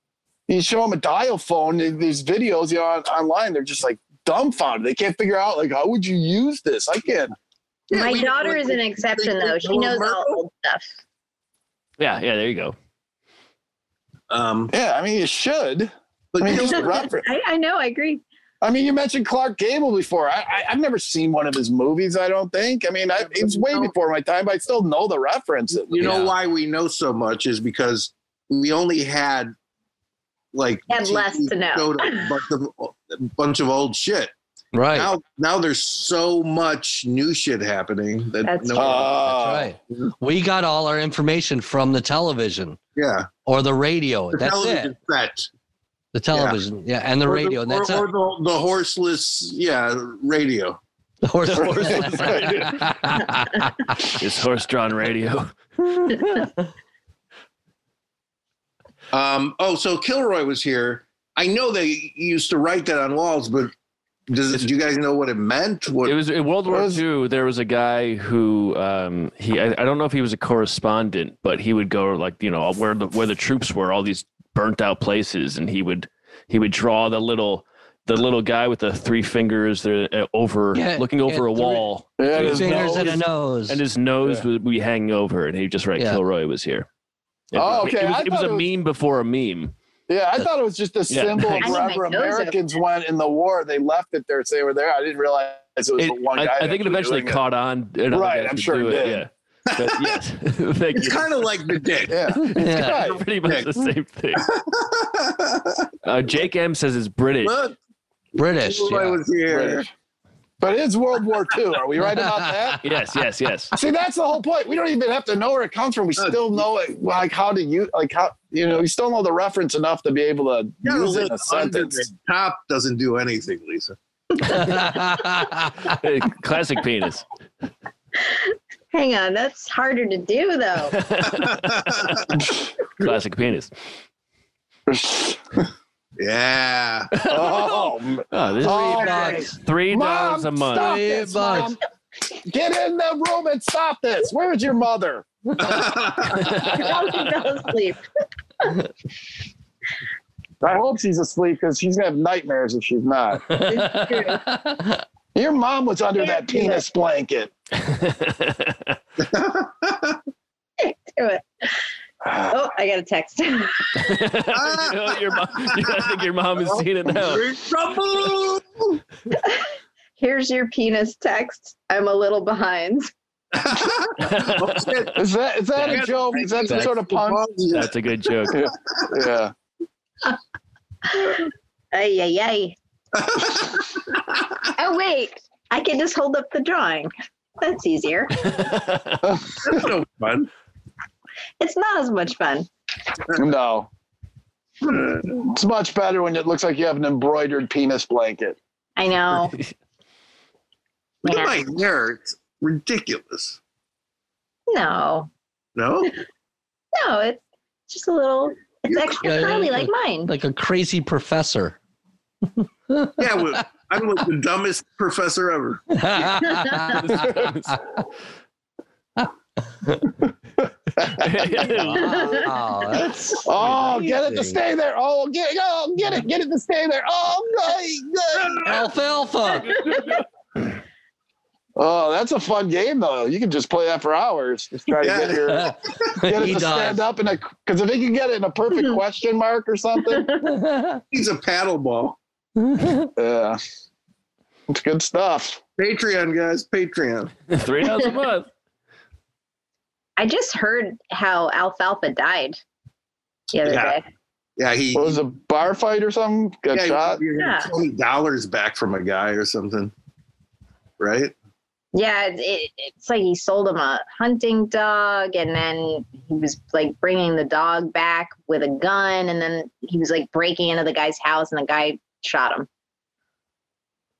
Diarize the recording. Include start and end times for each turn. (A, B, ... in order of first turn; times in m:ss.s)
0:00.5-0:07.3 A
0:07.9-0:10.4 B
0:07.9-0:10.9 C
0:12.0-0:12.8 D
0:14.3-0:14.7 B
0:14.7-0:17.2 A
0:16.3-0:17.0 B
0:16.7-0:18.2 C
0:18.6-0:26.0 A
0:23.2-0:23.9 C
0:25.9-0:29.5 B
0:26.0-0:26.3 E
0:30.5-0:34.3 B
0:30.9-0:32.4 C
0:34.7-0:35.1 E
0:34.9-0:39.4 B
0:38.4-0:39.0 C
0:38.7-0:39.7 A
0:39.3-0:42.8 E
0:43.0-0:43.3 B
0:43.4-0:44.9 E
0:44.3-0:45.5 B
0:46.1-0:48.0 E
0:46.3-0:46.6 B
0:47.2-0:50.8 B
0:51.2-0:54.1 E
0:51.5-0:52.8 D
0:51.6-0:52.7 A
0:54.1-0:55.6 D
0:56.1-0:56.5 E
0:59.1-1:03.7 B
1:04.3-1:06.2 B
1:06.1-1:26.9 D
1:06.7-1:07.0 A
1:20.7-1:23.8 E
1:22.2-1:23.1 A
1:27.5-1:29.7 D
1:27.6-1:28.7 A
1:30.1-1:37.4 A
1:31.1-1:31.8 D
1:31.6-1:32.6 C
1:36.0-1:41.4 D
1:38.1-1:39.2 A
1:39.7-1:40.2 B
1:40.9-1:42.2 B
1:42.1-1:43.2 A
1:42.3-1:44.5 D
1:42.5-1:43.1 E
1:43.4-1:43.7 B
1:44.4-1:45.9 B
1:46.0-1:47.6 D
1:47.4-1:47.8 B
1:48.4-1:49.2 E
1:48.4-1:49.9 B
1:49.5-1:49.9 A
1:50.6-1:52.8 A
1:52.1-1:52.8 E
1:52.8-1:53.7 D
1:53.7-2:02.1 A
2:00.8-2:04.0 B
2:04.4-2:05.9 E
2:05.8-2:07.3 D
2:08.9-2:11.0 C
2:10.9-2:12.0 D
2:11.3-2:12.3 B
2:12.4-2:12.6 A
2:13.0-2:13.7 D
2:14.9-2:15.6 A
2:16.2-2:17.1 B
2:17.2-2:21.0 D
2:17.3-2:21.8 A
2:18.6-2:19.5 E
2:20.7-2:21.7 E
2:22.4-2:25.3 A
2:25.6-2:26.5 B
2:26.4-2:28.0 C
2:30.6-2:33.5 A
2:33.5-2:35.0 E
2:33.6-2:34.4 C
2:35.4-2:37.5 A
2:36.2-2:36.8 C
2:37.8-2:39.0 D
2:39.2-2:40.2 B
2:40.8-2:41.7 C
2:42.2-2:42.5 A
2:42.4-2:44.2 C
2:44.0-2:47.5 D
2:44.5-2:46.0 B
2:46.6-2:49.0 B
2:49.3-2:53.1 C
2:53.5-2:55.2 B
2:54.2-2:55.1 D
2:55.2-2:57.4 A
2:55.8-2:57.9 B
2:57.7-2:58.7 D
2:58.5-2:59.1 B
2:58.5-2:59.5 A
3:01.1-3:02.8 C
3:03.1-3:04.6 B
3:04.7-3:08.5 C
3:08.4-3:09.3 D
3:09.2-3:09.6 A
3:09.6-3:10.5 B
3:11.6-3:12.7 C
3:13.4-3:13.9 A
3:14.9-3:15.2 B
3:15.3-3:18.6 A
3:19.0-3:19.6 C
3:21.2-3:23.6 B
3:21.2-3:21.6 C
3:24.7-3:25.3 C
3:25.8-3:26.1 B
3:26.9-3:30.3 C
3:28.9-3:29.6 B
3:29.2-3:31.8 E
3:32.9-3:33.2 E
3:33.2-3:36.3 B
3:35.9-3:37.7 E
3:36.5-3:36.9 C
3:36.9-3:37.8 D
3:41.0-3:41.3 A
3:41.1-3:42.5 D
3:41.6-3:44.6 E
3:42.1-3:42.5 C
3:43.4-3:48.9 A
3:48.3-3:48.9 B
3:48.6-3:49.8 E
3:49.6-3:50.2 D
3:51.8-4:00.3 A
3:55.0-3:56.1 B
3:55.6-3:57.0 E
4:00.1-4:00.5 C
4:00.4-4:01.0 E
4:01.1-4:02.2 B
4:02.6-4:03.1 E
4:03.2-4:03.6 A
4:04.7-4:05.6 A
4:05.8-4:07.3 B
4:07.5-4:08.5 D
4:10.2-4:12.6 C
4:13.5-4:14.0 C
4:13.6-4:14.0 B
4:14.6-4:15.2 B
4:14.9-4:17.2 A
4:16.7-4:19.9 B
4:17.4-4:17.7 C
4:21.0-4:21.3 B
4:21.9-4:32.7 C